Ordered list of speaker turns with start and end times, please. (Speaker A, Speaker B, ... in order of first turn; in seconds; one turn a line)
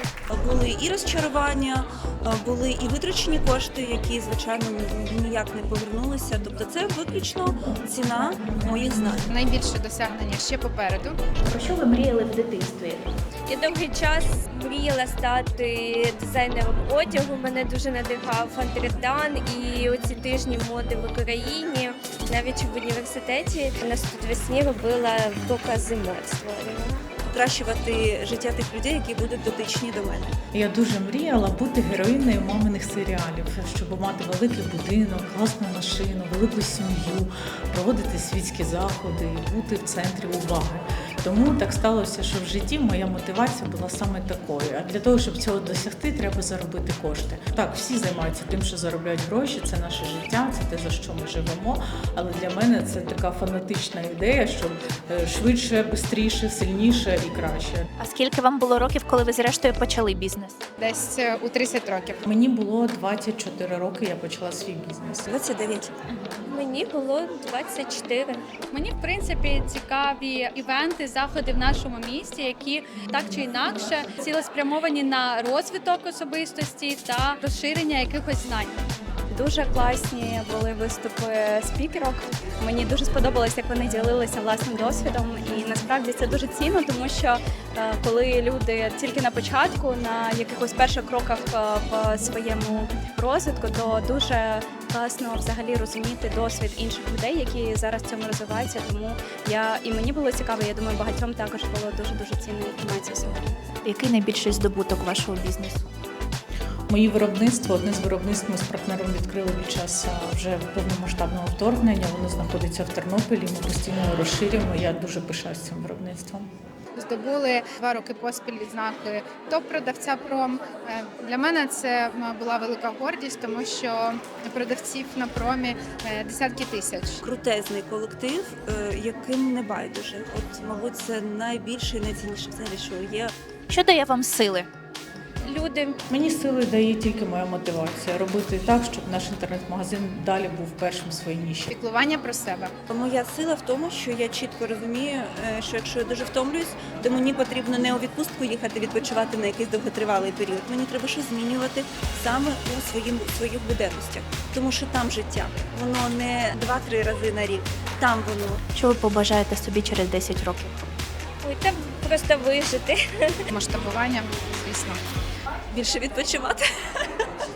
Speaker A: 0.3-9.3
Speaker B: 9.3-11.2
Speaker C: 11.4-13.0
Speaker D: 13.5-26.8
Speaker A: 27.2-30.3
Speaker E: 30.5-57.9
Speaker C: 58.0-60.6
Speaker B: 60.8-62.2
Speaker E: 62.2-65.3
Speaker A: 65.3-65.9
Speaker D: 66.5-68.4
Speaker B: 68.7-69.3
Speaker F: 69.3-78.8
Speaker B: 71.1-71.7
Speaker G: 79.3-103.5
Speaker C: 103.8-105.8
Speaker E: 106.9-116.5
Speaker B: 117.0-127.2
Speaker A: 127.2-133.3
Speaker C: 133.7-134.7
Speaker D: 135.4-135.9
Speaker E: 136.1-141.7
Speaker B: 141.7-142.7
Speaker A: 142.9-158.6
Speaker C: 158.7-160.8
Speaker D: 161.4-162.9
Speaker B: 163.5-165.0
Speaker A: 165.7-167.1